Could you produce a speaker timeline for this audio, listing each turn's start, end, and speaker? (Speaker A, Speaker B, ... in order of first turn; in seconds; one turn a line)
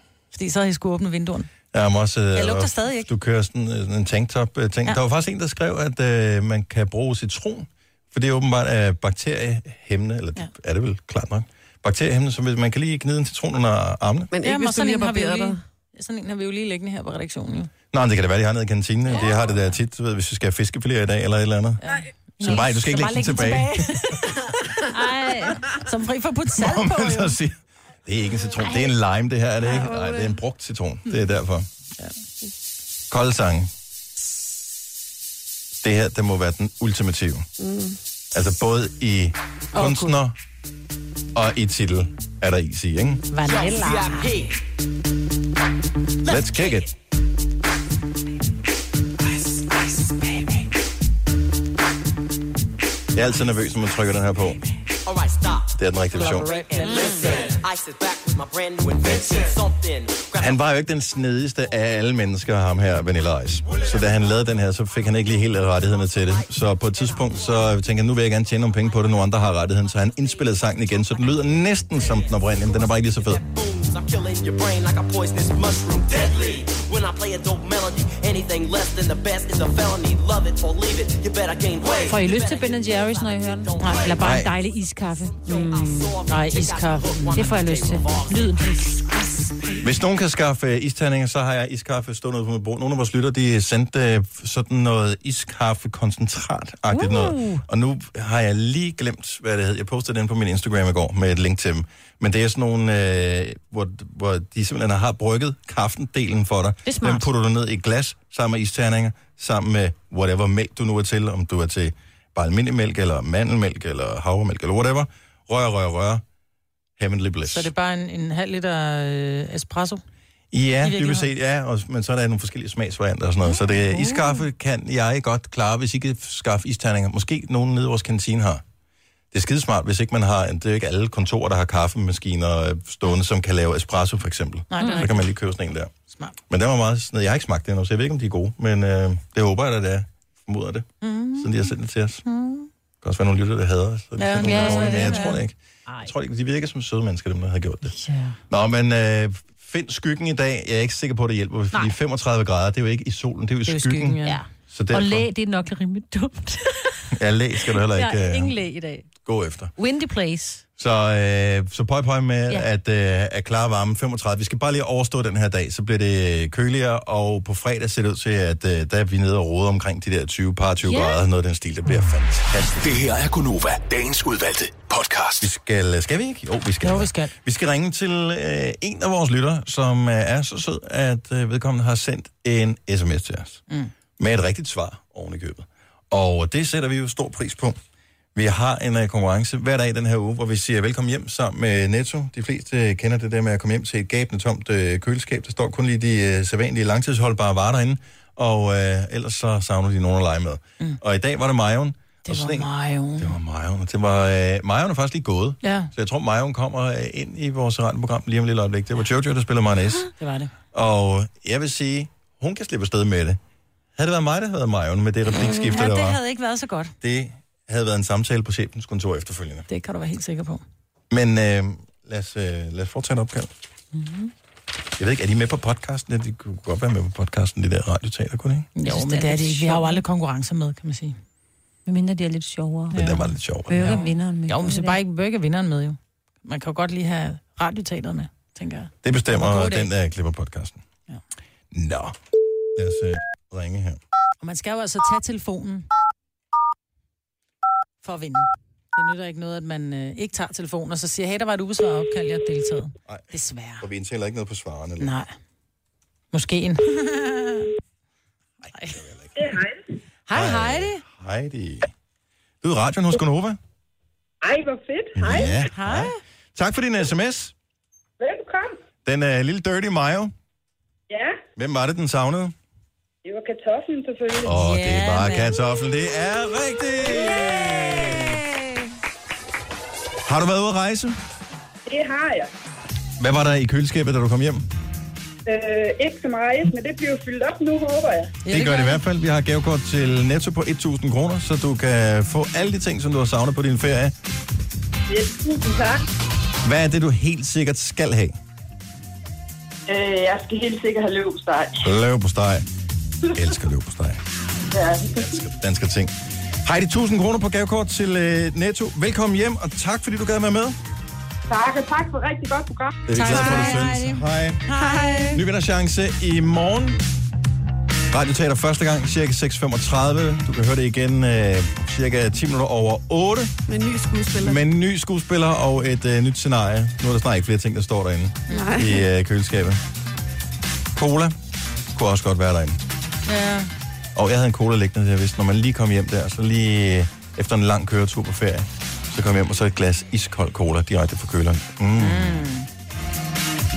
Speaker A: 0.3-1.5
Speaker B: 1.7-14.3
Speaker A: 2.4-3.1
Speaker C: 14.3-15.6
Speaker A: 14.4-17.7
Speaker B: 17.9-21.8
Speaker A: 21.8-24.8
Speaker B: 22.4-23.9
Speaker D: 22.4-22.8
Speaker D: 24.9-25.6
Speaker A: 25.6-27.4
Speaker B: 26.6-31.7
Speaker C: 29.7-30.3
Speaker B: 33.1-33.7
Speaker B: 35.8-37.5
Speaker C: 37.6-38.0
Speaker B: 38.3-40.4
Speaker A: 39.7-40.2
Speaker B: 41.4-43.2
Speaker A: 43.3-44.3
Speaker E: 43.4-44.6
Speaker B: 46.3-46.9
Speaker A: 49.5-50.6
Speaker B: 53.1-54.7
Speaker E: 55.1-60.6
Speaker B: 55.8-56.5
Speaker A: 56.1-57.5
Speaker D: 56.8-57.5
Speaker B: 60.4-73.4
Speaker E: 65.9-67.5
Speaker E: 68.6-84.3
Speaker D: 81.9-86.2
Speaker A: 83.8-84.2
Speaker B: 84.2-84.5
Speaker E: 85.4-88.8
Speaker A: 86.3-87.6
Speaker D: 87.3-89.0
Speaker B: 89.8-116.2
Speaker D: 96.9-97.6
Speaker D: 106.8-107.3
Speaker B: 117.0-117.7
Speaker A: 117.5-120.0
Speaker B: 120.5-128.6
Speaker A: 120.8-121.3
Speaker D: 123.6-124.4
Speaker B: 129.3-135.9
Speaker A: 134.7-135.3
Speaker D: 134.8-135.1
Speaker B: 136.5-142.2
Speaker A: 141.0-141.7
Speaker A: 142.2-142.7
Speaker B: 143.0-147.9
Speaker A: 144.2-145.4
Speaker D: 144.4-146.1
Speaker A: 147.9-148.4
Speaker B: 148.5-154.2
Speaker A: 153.7-154.4
Speaker D: 154.2-157.1
Speaker B: 154.7-155.3
Speaker B: 157.1-158.6
Speaker D: 157.7-159.1
Speaker B: 159.2-159.7
Speaker D: 159.8-160.6
Speaker B: 160.8-172.9
Speaker D: 170.8-171.2
Speaker F: 172.8-175.5
Speaker B: 175.4-183.6
Speaker A: 176.8-177.3
Speaker B: 184.2-187.8
Speaker B: 188.3-210.1
Speaker A: 202.3-203.4
Speaker A: 205.6-205.9
Speaker A: 210.2-210.5
Speaker B: 210.7-213.4
Speaker B: 213.9-216.2
Speaker A: 215.4-216.9
Speaker B: 217.0-219.7
Speaker A: 219.7-220.6
Speaker B: 221.1-223.5
Speaker A: 224.0-224.3
Speaker B: 225.0-228.7
Speaker A: 228.8-231.2
Speaker D: 228.8-230.0
Speaker D: 231.9-233.1
Speaker B: 232.9-234.0
Speaker A: 232.9-233.3
Speaker D: 233.7-235.0
Speaker A: 233.8-239.9
Speaker B: 239.0-240.8
Speaker B: 241.7-242.2
Speaker B: 242.8-244.0
Speaker A: 244.4-245.9
Speaker A: 248.0-253.9
Speaker B: 253.8-255.1
Speaker A: 255.0-255.3
Speaker A: 256.3-257.7
Speaker A: 258.7-259.0
Speaker B: 258.9-259.3
Speaker G: 259.4-259.8
Speaker A: 260.3-261.0
Speaker B: 260.3-261.9
Speaker B: 262.6-263.6
Speaker G: 264.4-265.6
Speaker B: 265.1-267.5
Speaker A: 265.7-266.2
Speaker G: 268.2-268.8
Speaker B: 269.1-270.3
Speaker G: 271.1-271.4
Speaker B: 271.6-272.6
Speaker G: 273.2-274.7
Speaker B: 274.4-278.4
Speaker A: 274.6-275.6
Speaker B: 280.2-281.2
Speaker G: 281.9-282.5
Speaker B: 283.2-284.6
Speaker G: 285.4-288.4
Speaker A: 288.4-289.0
Speaker B: 288.5-294.1
Speaker G: 295.1-296.1
Speaker B: 296.6-298.4
Speaker G: 299.9-301.9
Speaker B: 301.8-302.7
Speaker B: 303.3-304.2
Speaker G: 304.7-305.4
Speaker B: 305.1-310.8
Speaker G: 311.5-313.1
Speaker B: 313.1-314.6
Speaker A: 313.1-315.4
Speaker C: 313.2-313.8
Speaker C: 314.7-315.4
Speaker B: 315.3-317.0
Speaker B: 318.1-323.5
Speaker C: 323.7-324.6
Speaker B: 324.4-329.8
Speaker A: 328.5-328.8
Speaker C: 328.5-329.1
Speaker B: 330.9-331.4
Speaker B: 331.9-332.8
Speaker A: 333.3-333.7
Speaker B: 334.1-342.4
Speaker A: 342.0-342.7